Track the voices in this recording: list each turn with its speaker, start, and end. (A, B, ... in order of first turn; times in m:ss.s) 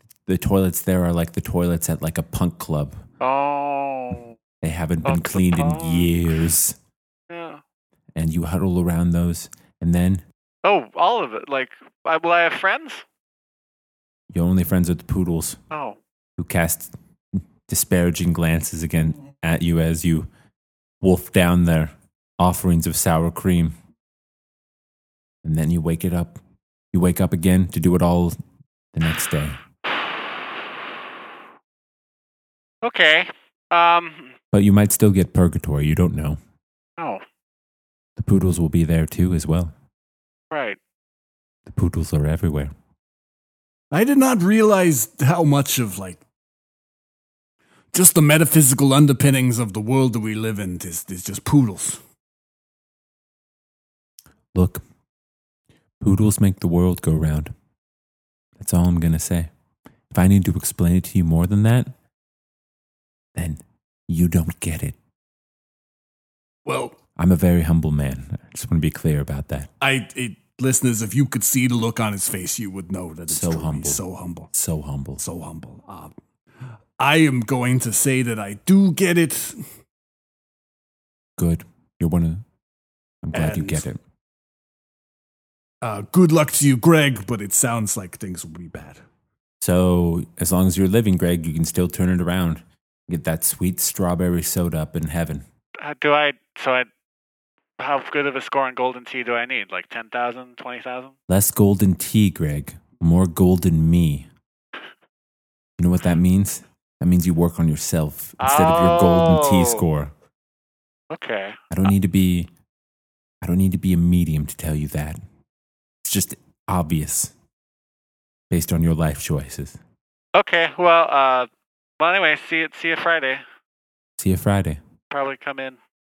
0:00.3-0:03.0 A
0:03.2-0:04.4 B
0:04.6-0:06.8 A
0:05.0-0:06.2 B
0:07.3-0:07.6 B
0:08.2-0:10.2 A
0:10.6-0:13.0 B
0:14.3-0:15.6 A
0:15.7-0:16.0 B
0:16.4-0:20.3 A
0:21.0-0:23.8 A
0:25.4-0:26.4 A
0:26.9-0:28.4 A
0:28.9-0:29.6 A
0:32.8-0:34.4 B
0:34.5-0:36.4 A
0:37.0-0:37.2 B
0:38.2-0:39.7 A
0:40.5-0:40.8 B
0:41.7-0:42.7 A
0:43.9-0:46.2 C
0:47.9-0:52.0 C
0:54.5-0:54.8 A
0:56.0-0:57.5 A
0:58.6-0:59.5 A
1:00.1-1:02.0 A
1:03.4-1:05.0 A
1:06.7-1:07.0 C
1:07.2-1:09.7 A
1:09.8-1:14.5 C
1:13.3-1:14.0 A
1:14.5-1:15.2 A
1:15.2-1:16.1 C
1:17.0-1:19.6 C
1:21.4-1:22.4 A
1:23.2-1:24.0 A
1:23.3-1:23.9 C
1:25.8-1:29.0 C
1:29.6-1:35.4 A
1:35.8-1:36.9 B
1:37.8-1:41.2 B
1:41.3-1:44.3 A
1:45.8-1:50.1 A
1:48.4-1:49.8 B
1:51.1-1:51.6 B
1:51.7-1:52.5 A
1:53.4-1:55.2 A
1:56.0-1:57.3 A
1:58.5-1:59.8 A
2:00.3-2:01.5 B
2:02.0-2:03.4 B
2:04.2-2:04.8 A
2:05.1-2:05.8 B